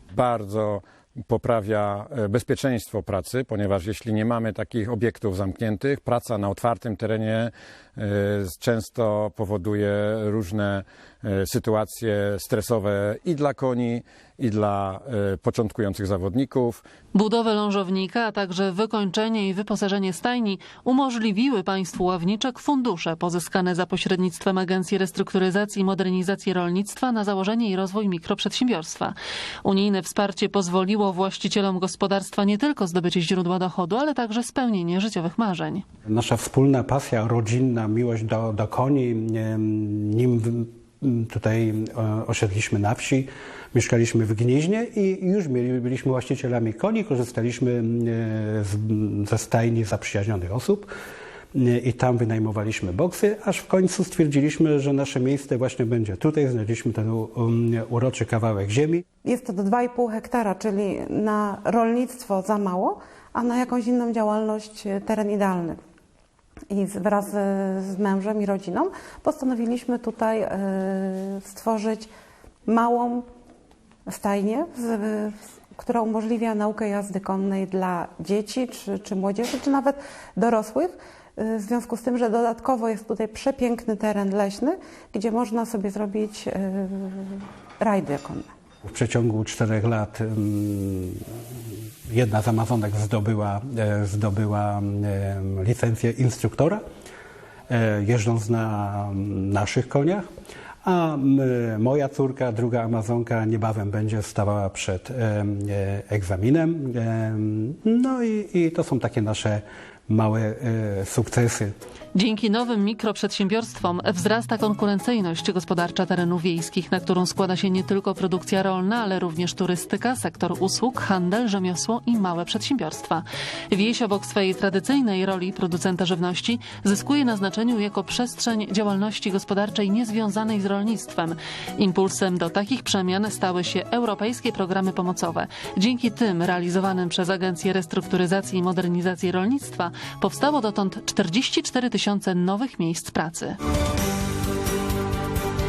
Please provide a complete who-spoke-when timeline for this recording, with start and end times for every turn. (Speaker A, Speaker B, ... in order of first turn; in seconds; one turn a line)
Speaker A: 0.1-16.8
Speaker B: 17.1-35.9
Speaker C: 36.0-50.9
Speaker C: 51.5-59.0
Speaker D: 59.2-65.8
Speaker D: 66.7-72.1
Speaker D: 72.7-73.3
Speaker D: 74.0-88.5
Speaker C: 88.8-96.8
Speaker C: 97.7-100.3
Speaker C: 100.8-111.7
Speaker B: 112.1-143.6